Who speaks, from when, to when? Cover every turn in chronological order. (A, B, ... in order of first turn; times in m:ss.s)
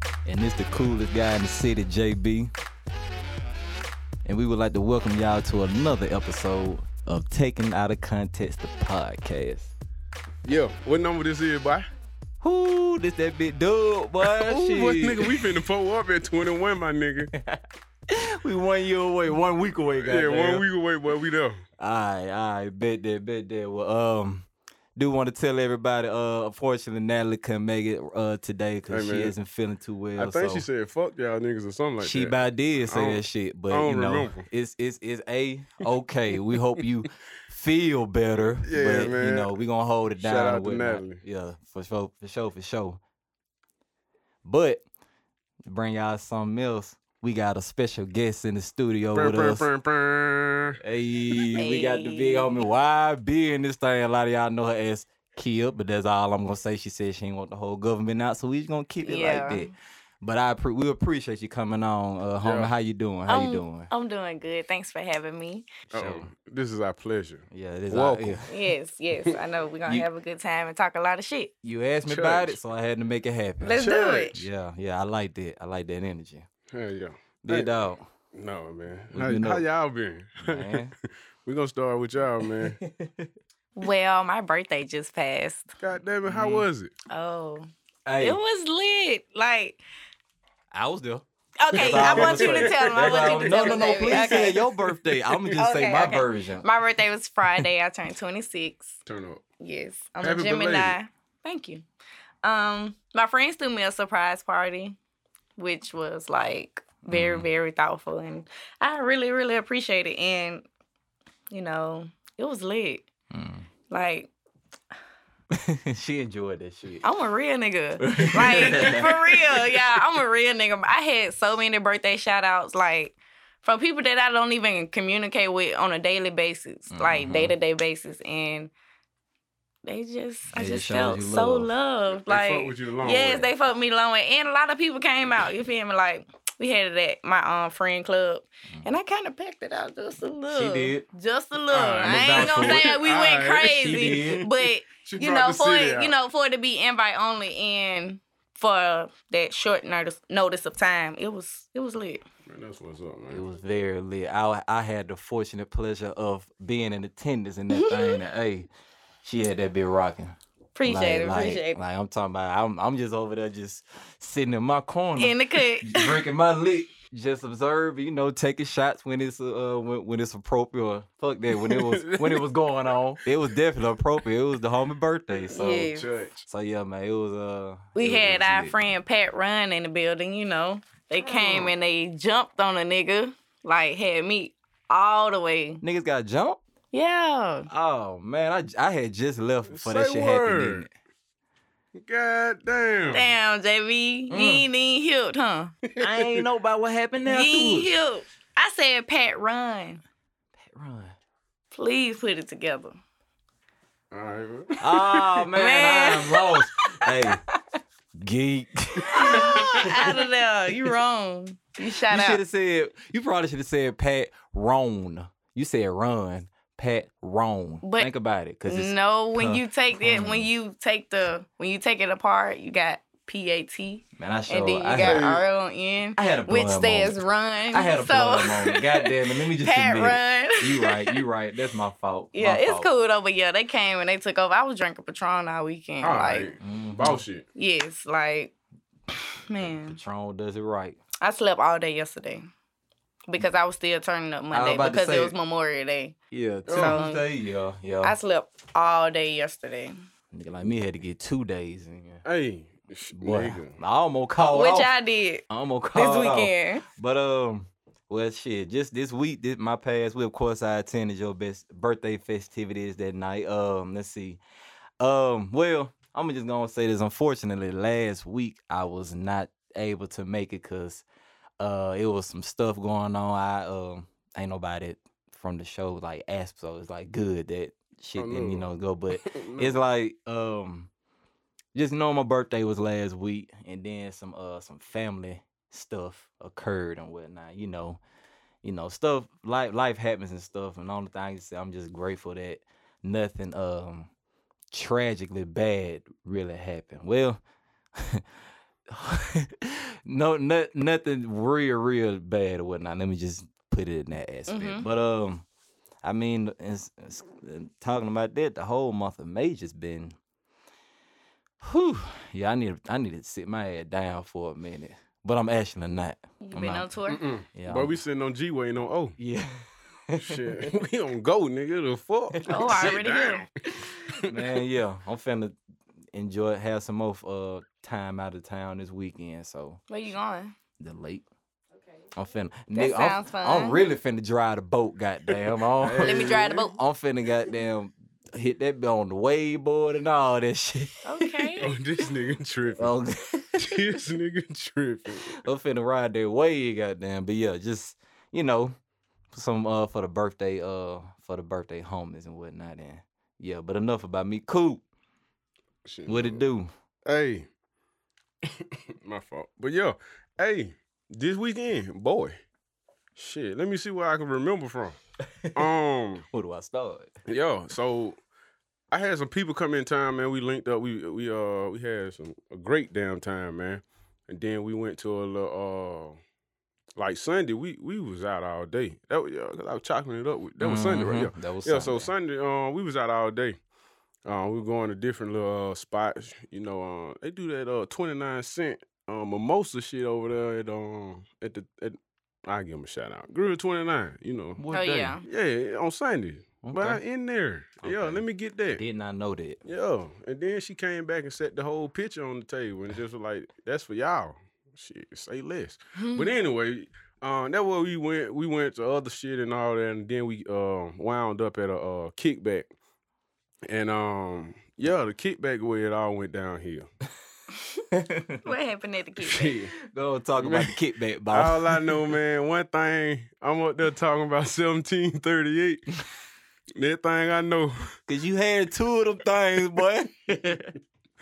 0:00.2-0:02.5 A
0:04.2-0:09.7 A
0:10.4-0:11.9 B
0:12.4-0:15.5 A
0:14.3-0:17.3 B
0:17.3-0:20.6 A
0:20.0-0:21.6 B
0:21.8-0:30.6 A
0:28.9-0:29.3 B
0:30.2-0:34.5 B
0:32.0-0:43.0 A
0:38.6-0:39.5 B
0:40.2-0:41.2 B
0:44.4-0:44.8 A
0:45.7-0:49.7 A
0:49.1-0:50.8 B
0:50.8-1:03.9 A
0:51.6-0:52.5 C
0:59.0-0:59.7 C
1:02.4-1:02.7 B
1:03.3-1:05.7 C
1:05.9-1:06.3 A
1:05.9-1:08.4 B
1:07.5-1:08.5 A
1:08.5-1:11.5 C
1:11.6-1:16.5 A
1:12.0-1:12.6 B
1:13.6-1:14.4 C
1:13.8-1:14.4 B
1:16.7-1:20.8 B
1:17.4-1:18.0 A
1:19.1-1:19.6 A
1:20.4-1:20.9 A
1:21.5-1:22.8 B
1:22.4-1:23.3 A
1:23.8-1:25.7 C
1:25.8-1:26.9 B
1:26.2-1:26.7 A
1:27.1-1:27.7 C
1:28.1-1:28.4 A
1:28.2-1:29.8 C
1:30.7-1:36.7 A
1:31.6-1:34.6 C
1:31.8-1:35.6 B
1:35.6-1:39.0 C
1:39.1-1:39.4 B
1:39.6-1:41.8 C
1:40.2-1:41.0 B
1:42.4-1:45.0 C
1:45.6-1:50.6 C
1:47.1-1:47.5 A
1:51.5-1:53.1 C
1:53.3-1:53.7 A
1:53.9-1:54.3 C
1:55.5-1:57.0 A
1:57.0-2:08.7 C
1:58.0-1:59.9 A
2:06.9-2:07.5 A
2:09.8-2:32.2 C
2:10.5-2:11.7 A
2:12.1-2:13.5 B
2:20.5-2:21.0 A
2:21.7-2:26.1 B
2:22.0-2:22.9 A
2:23.8-2:24.4 A
2:32.5-2:33.4 B
2:33.3-2:38.7 A
2:37.7-2:38.2 C
2:39.2-2:55.9 A
2:40.8-2:41.8 C
2:45.2-2:46.2 C
2:51.5-2:52.5 B
2:55.3-2:56.5 B
2:55.5-2:56.1 C
2:56.5-2:58.8 A
2:58.0-3:05.8 C
3:01.3-3:01.7 B
3:05.8-3:06.6 A
3:06.9-3:07.7 C
3:07.7-3:10.9 A
3:09.7-3:10.9 B
3:12.0-3:13.3 B
3:13.1-3:15.7 C
3:14.3-3:14.7 A
3:15.9-3:16.4 B
3:16.0-3:18.0 A
3:17.2-3:20.0 C
3:20.6-3:21.2 A
3:21.7-3:23.0 C
3:24.1-3:25.2 B
3:24.8-3:27.4 A
3:25.5-3:26.7 C
3:28.2-3:30.2 A
3:29.0-3:29.6 B
3:29.1-3:32.4 C
3:32.1-3:40.5 A
3:37.8-3:38.1 C
3:38.6-3:51.2 C
3:44.2-3:45.3 A
3:45.0-3:45.4 B
3:46.2-3:47.2 A
3:47.7-3:52.9 A
3:52.3-3:56.5 C
3:56.0-3:57.4 B
3:56.6-3:57.2 A
3:57.6-3:58.5 C
3:59.1-4:00.0 C
3:59.6-4:01.0 A
4:01.2-4:02.5 C
4:03.3-4:06.2 C
4:04.5-4:05.3 A
4:06.3-4:08.2 A
4:06.7-4:07.0 B
4:06.7-4:07.3 C
4:08.0-4:09.9 C
4:10.3-4:12.2 A
4:12.2-4:13.8 B
4:13.1-4:14.9 A
4:14.5-4:16.8 C
4:15.5-4:24.4 A
4:25.0-4:31.0 A
4:31.6-4:40.9 A
4:38.2-4:39.8 B
4:41.7-4:48.0 A
4:48.6-4:54.1 A
4:54.7-4:57.4 A
4:57.9-4:58.3 A
4:58.9-5:05.4 A
5:04.5-5:04.9 C
5:06.0-5:10.2 A
5:11.6-5:16.9 A
5:16.4-5:17.2 C
5:17.1-5:19.2 B
5:17.6-5:18.0 A
5:19.2-5:20.7 A
5:20.2-5:24.6 B
5:22.5-5:23.4 C
5:22.5-5:23.0 A
5:24.3-5:25.6 A
5:26.1-5:30.1 A
5:29.9-5:30.6 C
5:30.8-5:31.2 A
5:32.1-5:41.7 A
5:32.7-5:33.8 C
5:35.8-5:36.7 B
5:36.0-5:36.8 C
5:41.0-5:41.7 C
5:41.6-5:42.9 B
5:42.8-5:43.8 A
5:43.6-5:45.4 B
5:45.4-5:48.8 A
5:49.3-5:54.8 A
5:55.8-5:56.4 B
5:56.1-5:56.7 A
5:57.1-5:57.5 B
5:58.5-6:02.4 B
6:03.2-6:05.0 B
6:05.4-6:05.7 A
6:05.5-6:06.2 B
6:06.3-6:07.1 A
6:07.3-6:08.2 B
6:08.9-6:16.2 B
6:17.0-6:23.6 B
6:20.6-6:22.1 A
6:24.2-6:34.6 B
6:34.6-6:35.2 A
6:34.7-6:35.2 C
6:35.2-6:38.8 B
6:36.6-6:37.0 A
6:37.8-6:39.6 A
6:39.6-6:52.7 B
6:46.0-6:46.4 C
6:53.7-6:56.9 B
6:57.9-6:58.4 A
6:58.4-6:59.6 C
6:59.2-6:59.8 B
6:59.8-7:02.2 A
7:00.4-7:00.8 B
7:01.3-7:05.9 B
7:06.8-7:07.9 B
7:08.1-7:10.7 A